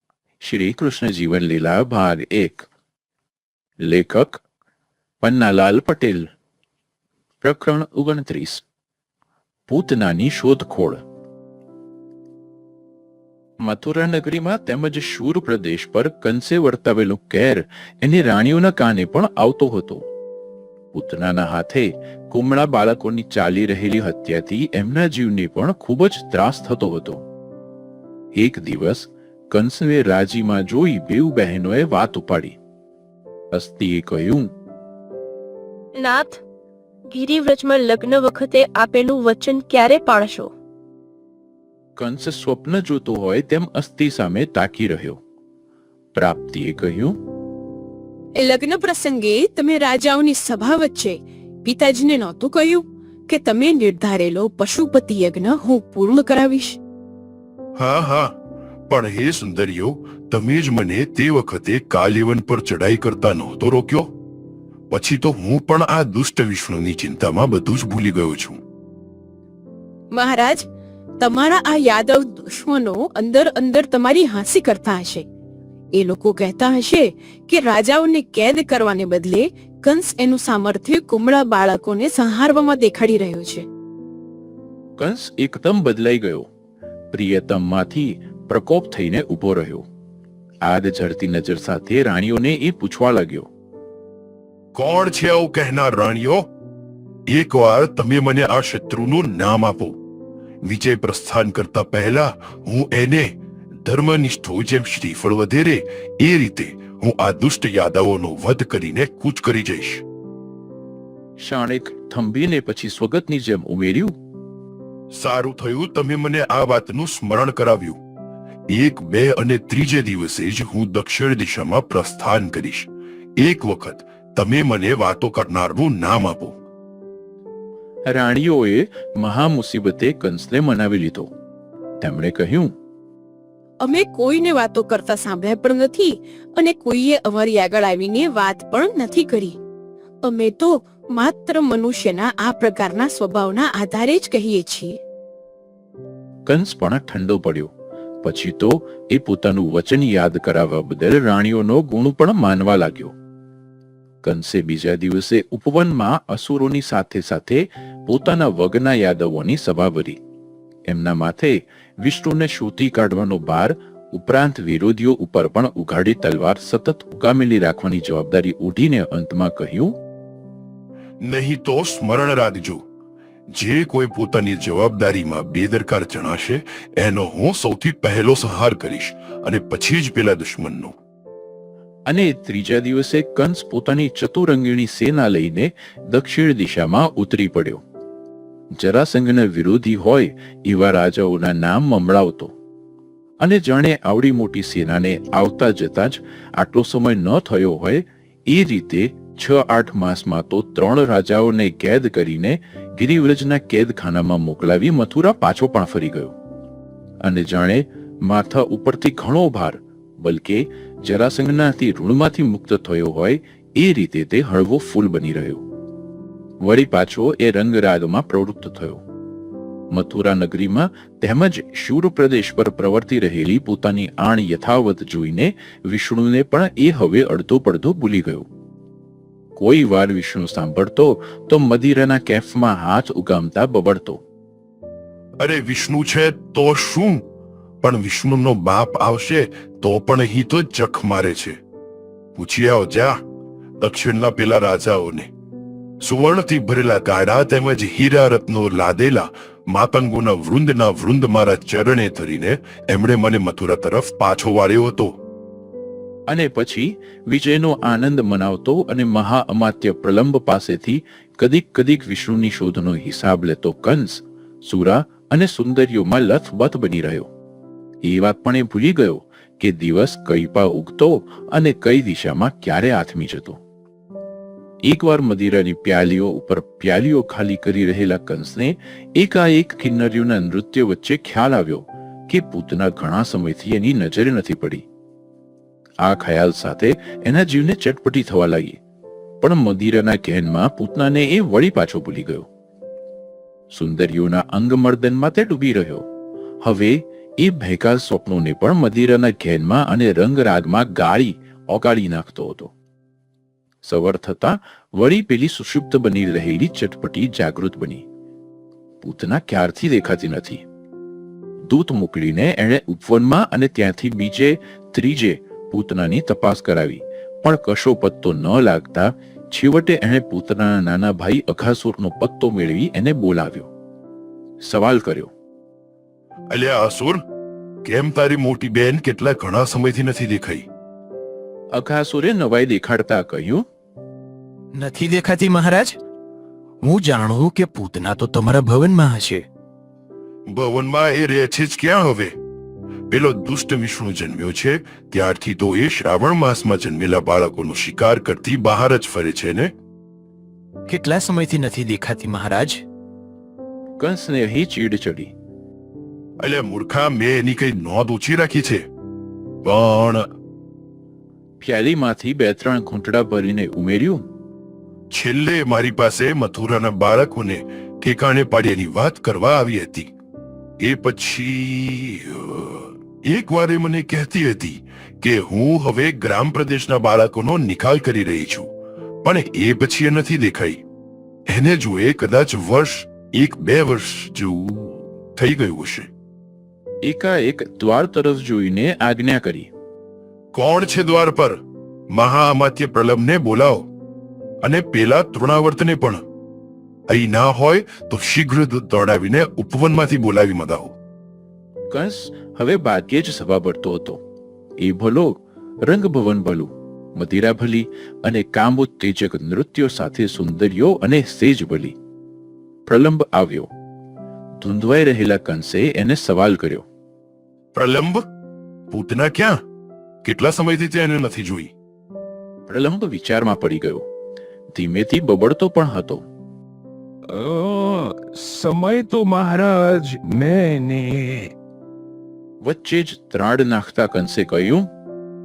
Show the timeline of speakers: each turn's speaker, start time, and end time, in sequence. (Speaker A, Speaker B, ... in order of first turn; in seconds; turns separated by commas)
Speaker A: 0.4-2.6, Speaker A: 3.8-4.4, Speaker A: 5.2-6.3, Speaker A: 7.4-8.6, Speaker A: 9.7-11.0, Speaker A: 13.6-20.1, Speaker A: 20.9-27.2, Speaker A: 28.3-32.6, Speaker A: 33.5-34.5, Speaker B: 36.0-36.4, Speaker B: 37.1-40.5, Speaker A: 42.0-45.2, Speaker A: 46.1-47.2, Speaker C: 48.4-56.8, Speaker D: 57.8-58.3, Speaker D: 58.9-64.1, Speaker D: 64.9-68.6, Speaker C: 70.1-70.7, Speaker C: 71.2-75.2, Speaker C: 75.9-83.6, Speaker A: 85.0-86.5, Speaker A: 87.1-89.8, Speaker A: 90.6-93.5, Speaker D: 94.7-96.5, Speaker D: 97.3-100.0, Speaker D: 100.6-103.3, Speaker D: 103.8-110.0, Speaker A: 111.4-114.1, Speaker D: 115.1-118.0, Speaker D: 118.7-126.5, Speaker A: 128.1-131.3, Speaker A: 132.0-132.7, Speaker C: 133.8-139.6, Speaker C: 140.2-145.0, Speaker A: 146.4-147.7, Speaker A: 148.2-153.1, Speaker A: 154.2-160.2, Speaker A: 160.9-170.0, Speaker D: 171.2-172.8, Speaker D: 173.5-180.9, Speaker A: 182.1-187.8, Speaker A: 188.8-192.5, Speaker A: 193.4-206.3, Speaker A: 207.2-215.6, Speaker A: 216.6-219.0, Speaker A: 219.9-228.4, Speaker A: 229.6-234.2, Speaker D: 235.4-237.2, Speaker D: 237.8-241.6, Speaker D: 242.3-243.2, Speaker D: 243.8-245.3, Speaker D: 246.0-255.1, Speaker A: 256.3-267.3, Speaker A: 268.0-273.6, Speaker A: 274.8-284.8, Speaker A: 286.0-288.8, Speaker A: 289.4-292.5, Speaker A: 293.7-296.1, Speaker A: 296.6-302.7, Speaker A: 303.8-308.0, Speaker A: 309.0-310.6, Speaker A: 311.7-323.7, Speaker A: 324.6-325.3, Speaker D: 326.5-327.2, Speaker D: 327.8-330.6, Speaker A: 331.7-333.6, Speaker E: 334.7-336.0, Speaker E: 336.8-339.4, Speaker D: 340.5-342.3, Speaker D: 343.1-349.7, Speaker E: 350.9-352.8, Speaker A: 354.0-355.3, Speaker D: 356.4-358.8, Speaker D: 359.6-360.3, Speaker A: 361.6-364.2, Speaker D: 365.1-370.1, Speaker D: 370.8-378.7, Speaker D: 379.2-380.8, Speaker D: 381.5-386.1, Speaker A: 387.0-389.7, Speaker D: 390.5-391.6, Speaker D: 392.1-393.9, Speaker D: 394.6-396.2, Speaker D: 397.1-400.9, Speaker A: 401.9-404.2, Speaker A: 404.8-411.9, Speaker A: 412.9-413.7, Speaker A: 414.6-416.9, Speaker D: 417.7-418.2, Speaker D: 418.9-419.6, Speaker D: 420.2-421.7, Speaker A: 422.7-424.1, Speaker A: 424.7-426.2, Speaker F: 427.3-431.5, Speaker A: 432.6-434.9